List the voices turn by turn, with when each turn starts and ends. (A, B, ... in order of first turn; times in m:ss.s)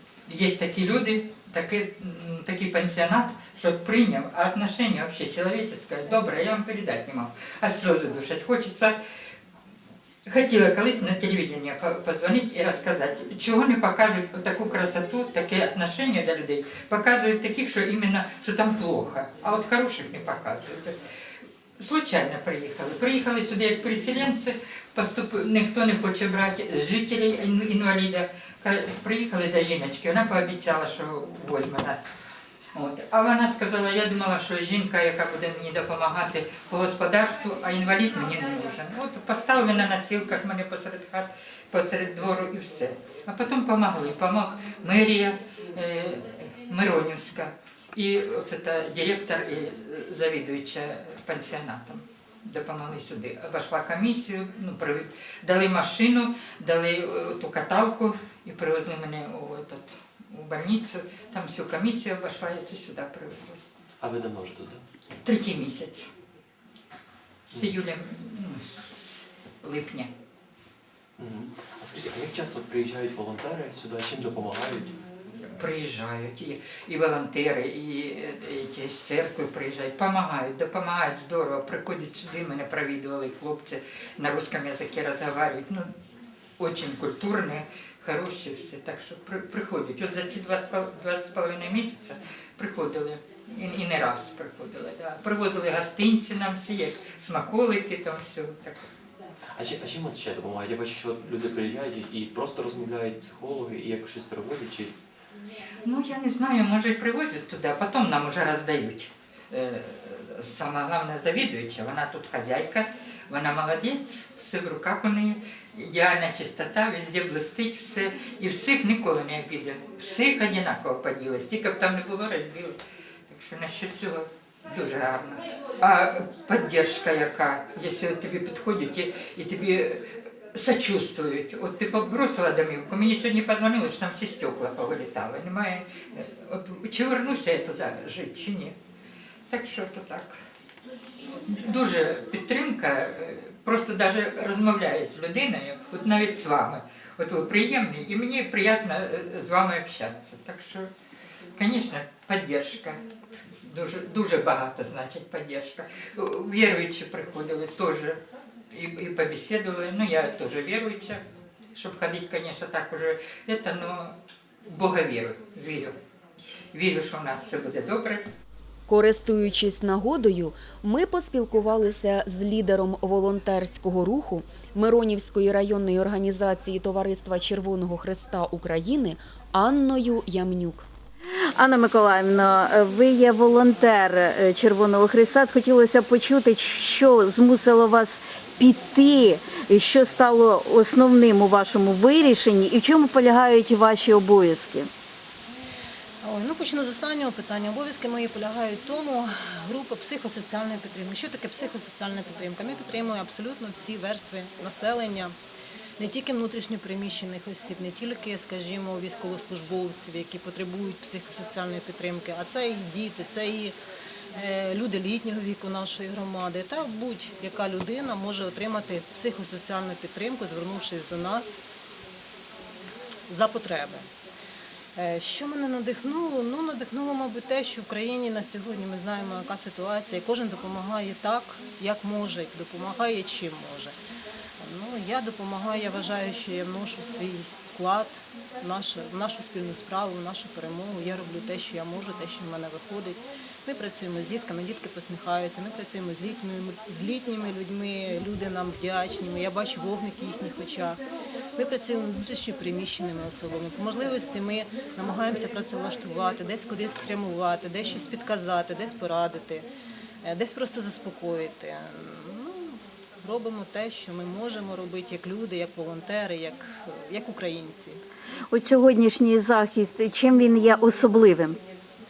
0:00.3-0:08.9 A
0:10.2-0:20.9 A
0:21.8-0:32.1 A
0:32.7-1:03.6 A
1:04.0-1:04.8 B
1:05.2-1:06.1 A
1:07.5-1:10.1 A
1:11.2-1:15.0 B
1:15.5-1:25.9 A
1:26.6-1:38.8 A
1:39.6-1:44.9 B
1:45.8-2:02.8 A
2:03.3-2:10.0 A
2:10.5-2:18.7 A
2:19.5-2:20.4 A
2:21.5-2:30.9 A
2:31.6-2:33.0 A
2:33.7-2:41.2 A
2:41.7-2:44.1 A
2:44.6-2:45.9 A
2:46.7-2:48.2 A
2:48.9-3:00.9 C
3:01.6-3:14.9 D
3:16.2-3:25.3 E
3:26.0-3:33.7 E
3:34.3-3:41.5 E
3:43.3-3:44.0 E
3:45.0-3:53.9 E
3:54.6-4:11.0 E
4:11.6-4:19.7 E
4:20.2-4:28.0 E
4:28.5-4:31.6 D